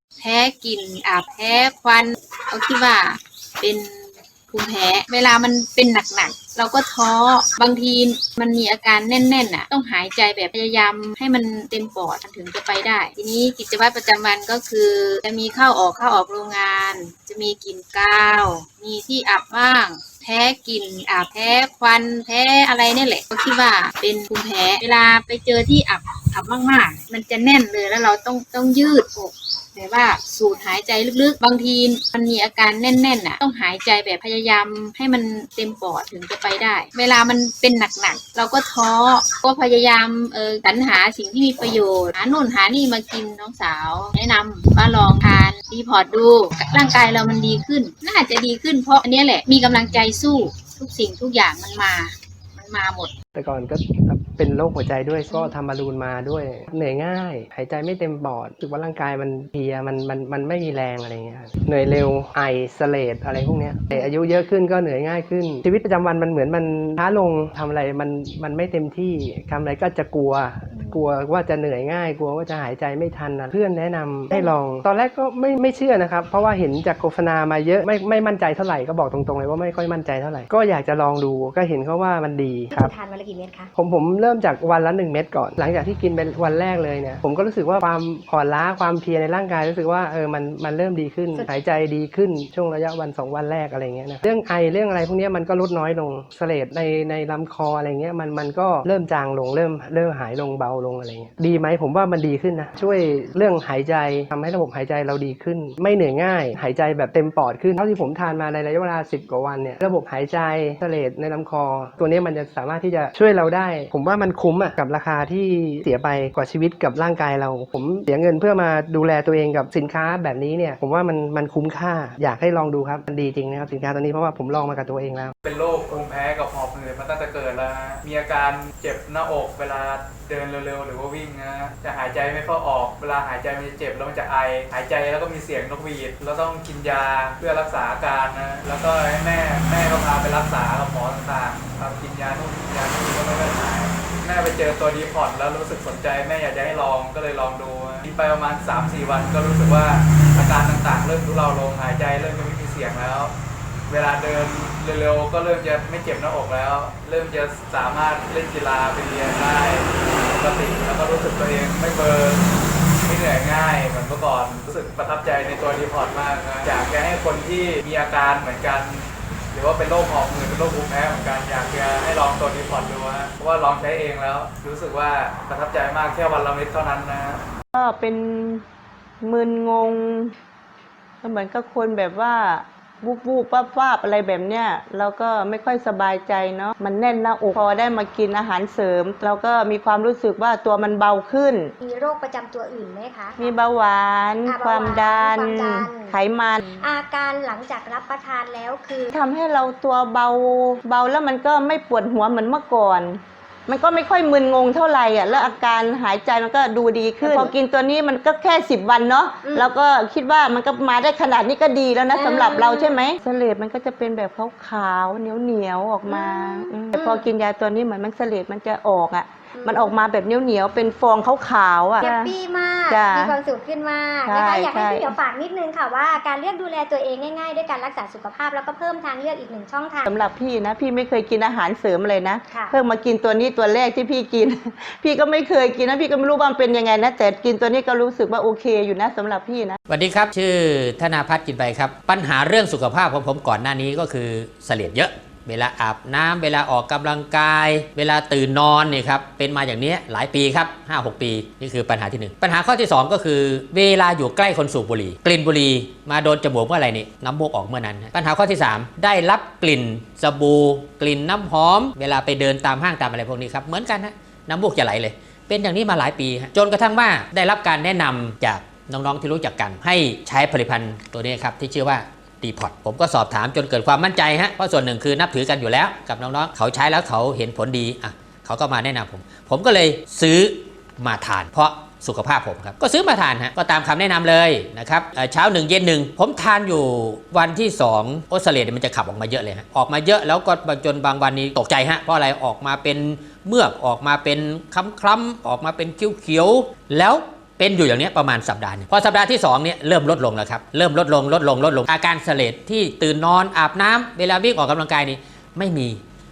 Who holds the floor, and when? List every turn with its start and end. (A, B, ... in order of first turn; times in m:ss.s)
0:00.2-0:53.1 A
0:53.3-1:22.9 B
1:22.7-1:23.7 C
1:23.8-2:05.3 B
2:05.5-2:33.3 D
2:33.9-2:42.4 D
2:43.0-2:57.4 D
2:57.8-2:58.6 E
2:59.2-3:00.3 E
3:01.2-3:11.7 E
3:11.8-3:13.6 C
3:13.4-3:16.7 E
3:14.4-3:19.1 C
3:19.1-3:42.3 E
3:25.3-3:25.6 C
3:27.2-3:27.5 C
3:29.4-3:29.7 C
3:32.1-3:33.0 C
3:36.1-3:37.3 C
3:39.5-3:40.0 C
3:42.0-3:50.2 C
3:42.9-3:43.4 E
3:44.2-3:45.1 E
3:50.0-3:59.8 E
3:52.5-3:52.8 C
3:59.9-5:06.0 F